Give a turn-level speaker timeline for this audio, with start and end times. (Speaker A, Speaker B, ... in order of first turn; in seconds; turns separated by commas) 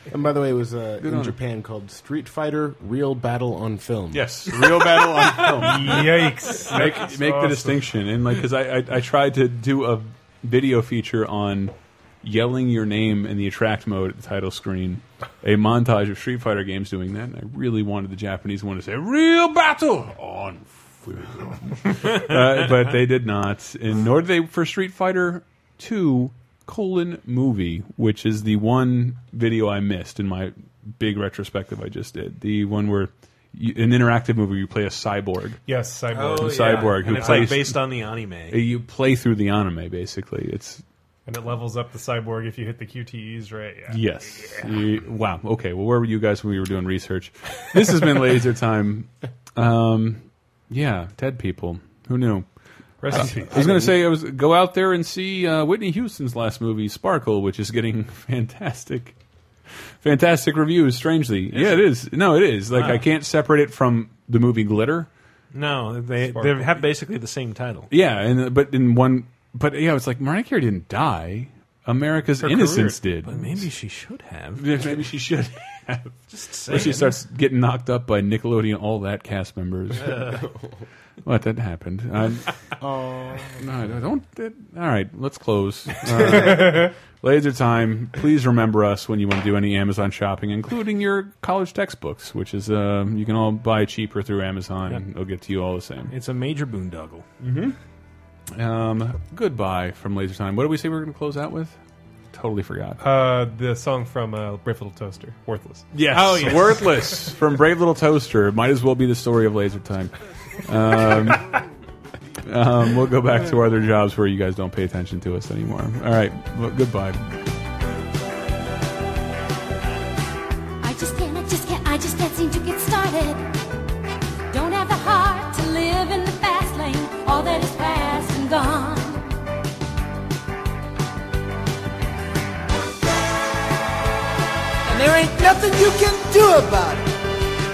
Speaker A: 0.1-4.3, Speaker B: 1.0-1.4, Speaker B: 4.1-35.6, Speaker C: 5.4-7.9, Speaker C: 35.7-37.6, Speaker D: 36.1-38.6, Speaker B: 36.3-37.9, Speaker B: 38.5-40.8, Speaker C: 41.3-44.8, Speaker B: 43.9-52.5, Speaker C: 53.0-54.0, Speaker B: 53.0-59.1, Speaker B: 60.0-65.1, Speaker D: 61.5-61.9, Speaker D: 62.7-63.0, Speaker D: 65.5-67.9, Speaker C: 66.2-66.8, Speaker B: 67.9-73.7, Speaker C: 72.4-73.0, Speaker D: 73.2-75.0, Speaker B: 74.6-80.3, Speaker D: 76.3-77.2, Speaker B: 81.2-82.6, Speaker A: 82.8-84.0, Speaker B: 83.6-96.1, Speaker C: 86.5-86.8, Speaker D: 96.1-97.3, Speaker B: 97.4-97.8, Speaker B: 98.5-101.8, Speaker B: 102.3-103.0, Speaker C: 103.0-105.9, Speaker B: 105.9-111.6, Speaker D: 106.1-107.0, Speaker B: 112.5-117.4, Speaker E: 120.8-123.5, Speaker E: 124.5-129.3, Speaker F: 134.9-137.1